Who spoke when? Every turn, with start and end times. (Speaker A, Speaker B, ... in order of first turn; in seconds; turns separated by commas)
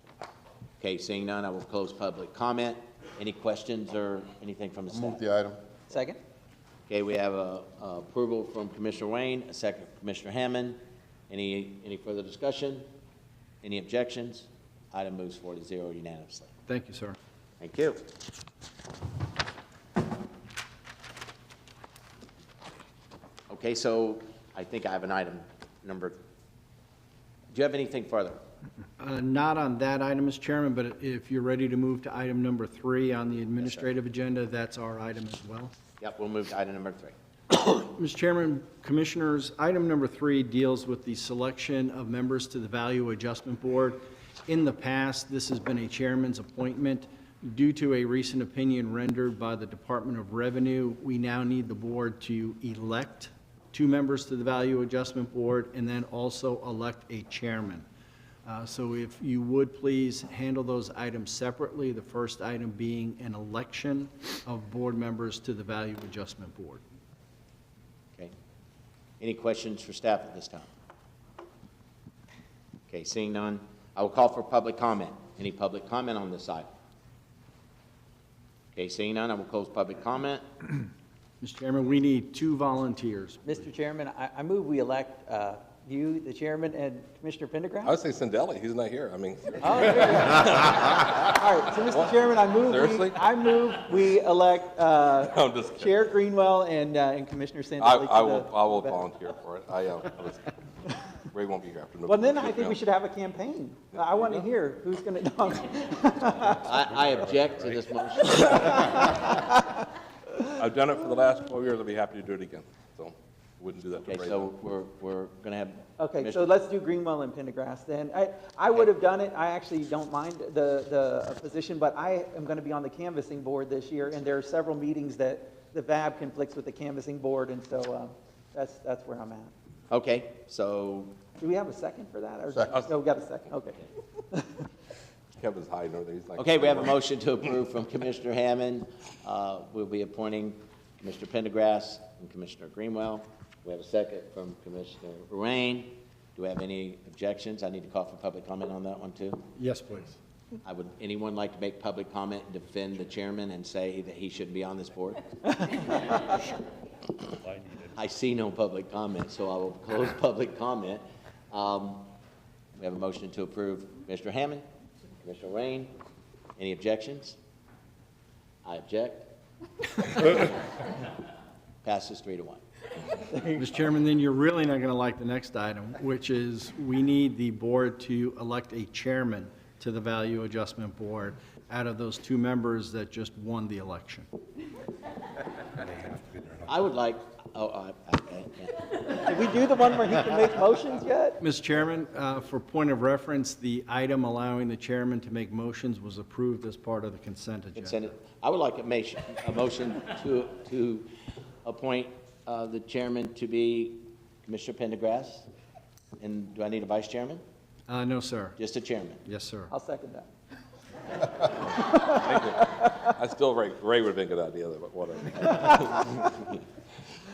Speaker A: 0.8-5.6, Speaker B: 5.9-6.2, Speaker A: 6.9-12.9, Speaker A: 13.6-16.5, Speaker C: 16.7-17.2, Speaker A: 17.6-18.1, Speaker A: 23.5-26.2, Speaker A: 27.5-28.4, Speaker C: 29.0-35.7, Speaker A: 33.6-33.9, Speaker A: 36.0-37.1, Speaker C: 37.5-57.9, Speaker C: 58.5-66.8, Speaker A: 69.2-70.7, Speaker A: 72.9-76.7, Speaker A: 78.7-80.5, Speaker C: 81.4-83.4, Speaker B: 83.5-88.0, Speaker D: 87.8-91.3, Speaker B: 89.6-99.0, Speaker D: 91.8-93.4, Speaker D: 95.1-96.0, Speaker D: 97.8-100.5, Speaker D: 101.3-102.8, Speaker B: 102.1-106.7, Speaker A: 106.5-109.1, Speaker B: 108.8-109.5, Speaker D: 110.5-114.5, Speaker A: 114.1-116.5, Speaker B: 116.0-129.5, Speaker A: 129.9-131.2, Speaker B: 131.4-134.7, Speaker D: 135.4-137.0, Speaker A: 136.4-149.5, Speaker C: 149.6-150.2, Speaker A: 150.6-156.3, Speaker A: 157.8-162.1, Speaker A: 162.8-164.7, Speaker A: 165.2-165.9, Speaker A: 166.6-167.4, Speaker A: 168.7-169.3, Speaker A: 170.2-170.5, Speaker A: 171.8-172.6, Speaker B: 173.3-173.7, Speaker C: 173.6-184.3, Speaker A: 186.6-189.2, Speaker B: 189.2-191.4, Speaker C: 191.4-198.0, Speaker A: 197.8-201.1, Speaker A: 201.6-205.5, Speaker A: 206.2-207.4, Speaker C: 207.9-208.6, Speaker A: 208.6-209.2, Speaker C: 209.2-209.7, Speaker B: 209.7-210.3, Speaker D: 211.4-216.5, Speaker B: 211.9-212.5